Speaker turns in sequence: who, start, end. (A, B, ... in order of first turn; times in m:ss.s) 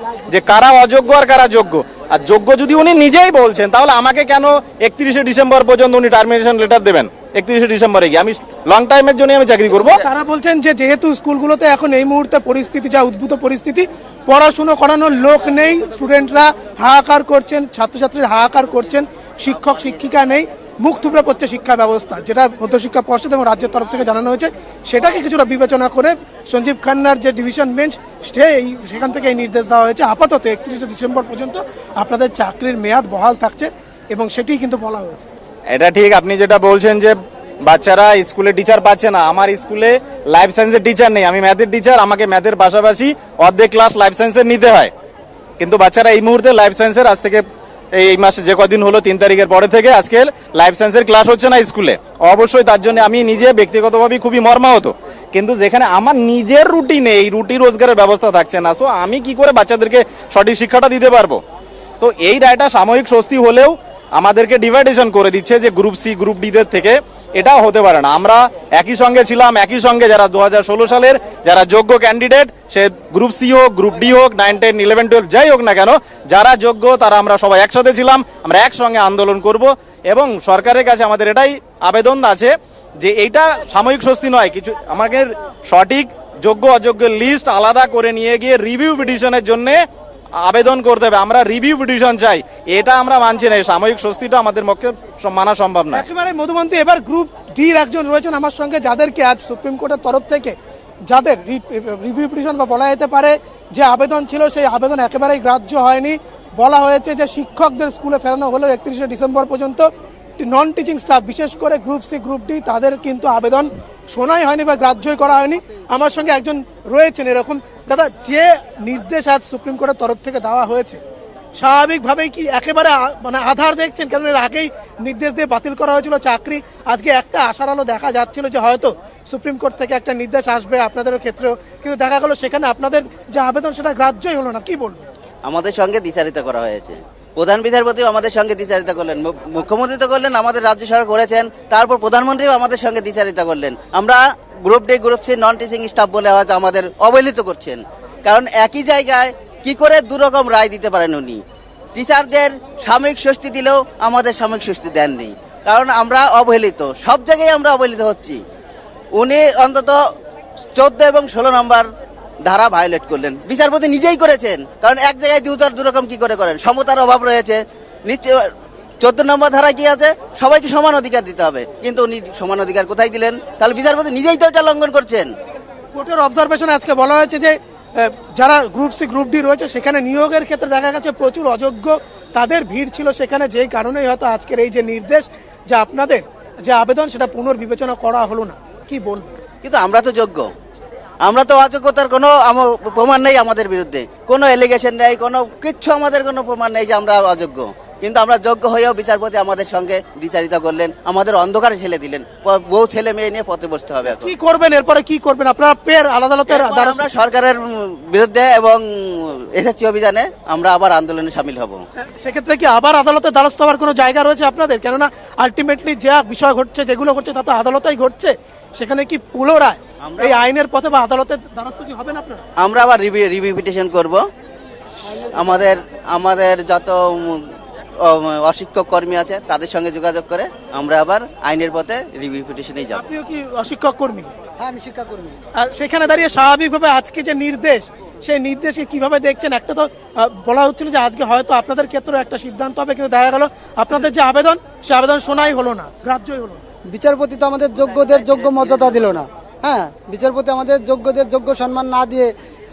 0:00.3-0:10.0 A
0:10.0-0:35.3 B
0:19.4-0:20.2 C
0:35.7-0:44.9 A
0:45.6-0:47.4 A
0:47.9-1:01.4 A
1:02.0-1:29.8 A
1:30.4-1:36.0 A
1:35.9-1:40.6 B
1:41.1-2:01.0 B
2:01.6-2:15.1 B
2:15.4-2:31.4 C
2:31.9-2:38.4 C
2:39.1-2:40.0 C
2:40.7-2:41.8 C
2:42.4-2:48.4 C
2:49.0-2:55.3 C
2:55.9-3:09.4 B
3:09.6-3:10.5 C
3:11.2-3:24.4 C
3:24.1-3:27.0 B
3:26.4-3:31.8 C
3:32.0-3:42.4 B
3:40.0-3:40.5 C
3:42.6-3:44.2 C
3:45.3-3:47.4 C
3:48.0-3:53.1 C
3:52.9-3:54.3 B
3:54.6-3:55.4 D
3:55.5-4:06.6 B
4:06.9-4:12.3 D